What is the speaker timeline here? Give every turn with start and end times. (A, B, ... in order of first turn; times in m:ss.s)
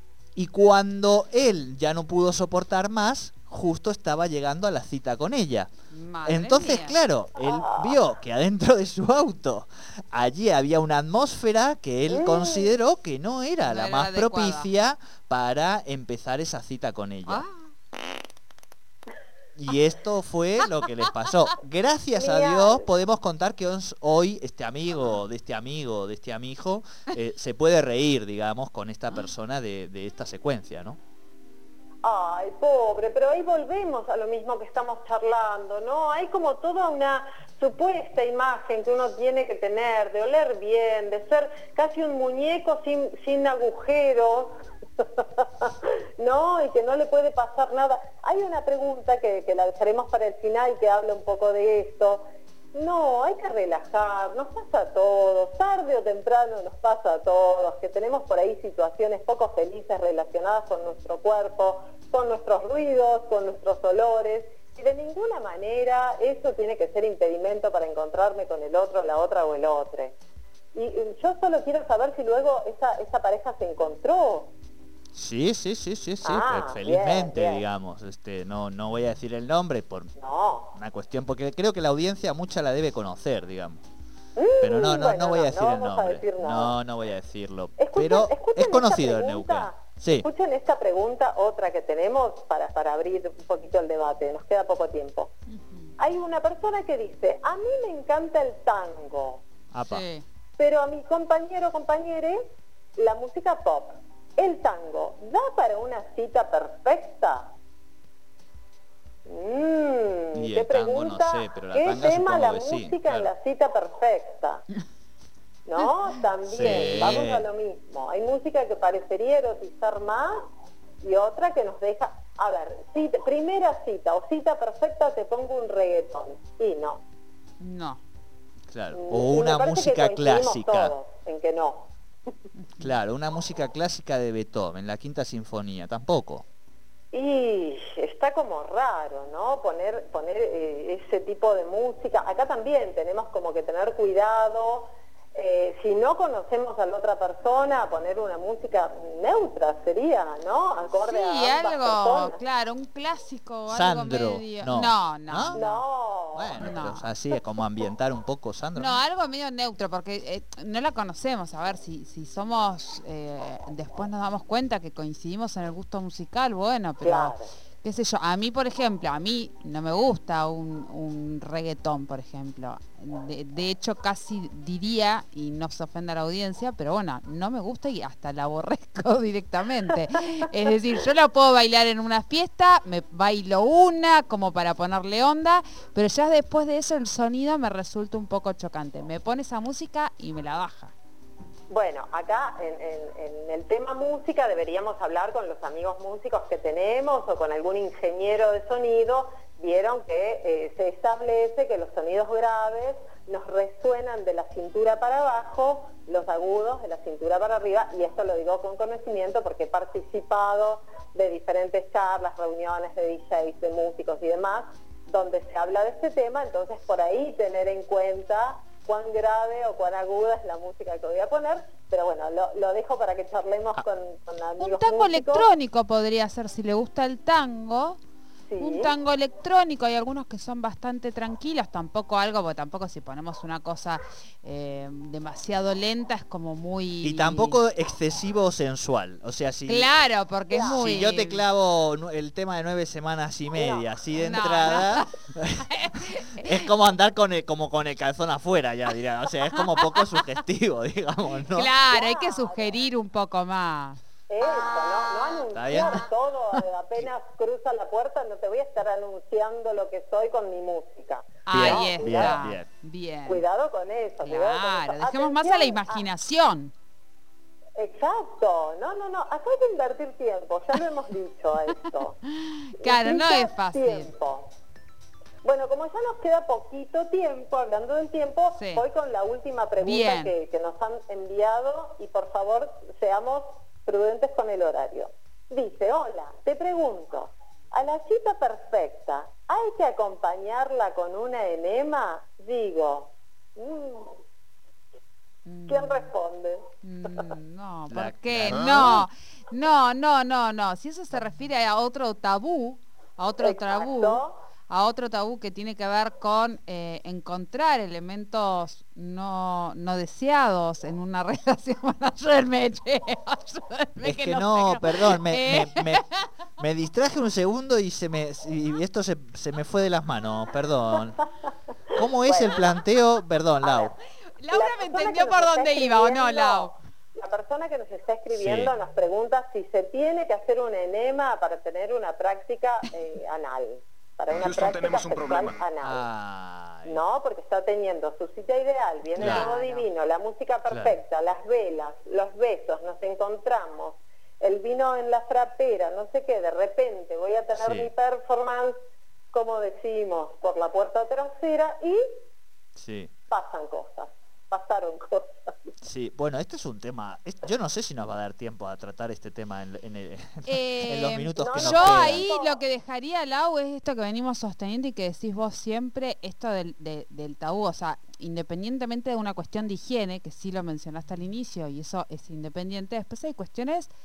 0:00.4-0:05.7 A
0:05.9-0:07.0 B
0:06.2-0:17.4 A
0:07.4-0:08.0 C
0:12.1-0:12.7 C
0:13.6-0:14.7 B
0:17.3-0:17.6 B
0:19.6-0:31.0 A
0:22.2-0:22.9 C
0:32.0-1:10.2 C
1:10.7-1:14.5 C
1:15.1-1:20.1 A
1:16.2-1:17.6 C
1:20.2-1:20.7 C
1:20.7-1:23.8 A
1:24.4-1:26.8 C
1:24.6-1:30.3 A
1:27.8-1:35.3 C
1:35.5-1:35.9 B
1:36.0-1:39.4 C
1:39.7-1:40.0 A
1:39.8-1:40.2 B
1:40.6-1:47.5 C
1:49.2-1:54.6 C
1:50.3-1:53.3 A
1:55.6-2:00.4 C
1:56.5-1:57.4 A
1:56.6-1:57.2 B
2:01.0-2:07.0 C
2:07.6-2:08.0 B
2:08.7-2:10.9 A
2:08.9-2:11.9 C
2:12.6-2:12.9 B
2:12.8-2:16.4 A
2:17.1-2:32.4 C
2:31.0-2:35.8 B
2:33.7-2:35.6 A
2:35.5-2:36.6 C
2:36.3-2:39.0 A
2:36.6-2:37.1 B
2:38.7-3:10.9 B
2:47.0-2:47.5 C
3:11.7-3:45.5 C
3:44.6-3:48.0 B
3:48.5-3:48.9 C
3:48.6-3:57.6 B
3:57.0-3:59.9 A
3:59.7-4:01.4 B
4:00.5-4:00.8 C
4:00.5-4:05.7 A
4:03.5-4:03.9 C
4:04.2-4:06.7 B
4:06.4-4:11.7 A
4:09.6-4:10.0 B
4:11.5-4:14.0 B
4:11.9-4:12.7 C
4:14.3-4:22.4 C
4:15.5-4:16.0 A
4:21.4-4:23.4 B
4:21.5-4:22.7 A
4:23.3-4:26.0 C
4:24.2-4:26.7 B
4:27.8-4:32.2 C
4:32.3-4:34.1 B
4:32.8-4:34.5 C
4:35.4-4:54.2 C
4:38.6-4:38.8 B
4:39.8-4:40.3 B
4:55.4-4:56.1 B
4:55.7-4:56.6 C
4:56.8-5:16.3 B
4:57.9-4:59.1 A
5:03.4-5:04.4 C
5:14.0-5:16.0 A
5:16.6-5:21.2 A
5:21.9-5:23.9 A
5:21.9-5:22.6 C
5:23.6-5:24.0 C
5:24.4-5:26.7 B
5:24.5-5:36.0 C
5:28.3-5:28.7 A
5:35.8-5:37.0 A
5:36.8-5:48.8 C
5:39.2-5:39.9 B
5:39.2-5:39.5 A
5:40.7-5:41.0 A
5:47.6-5:47.9 A
5:49.3-5:52.2 C
5:52.8-5:53.1 A
5:53.3-5:55.7 C
5:55.8-6:02.2 A
6:00.5-6:13.9 B
6:01.4-6:02.6 C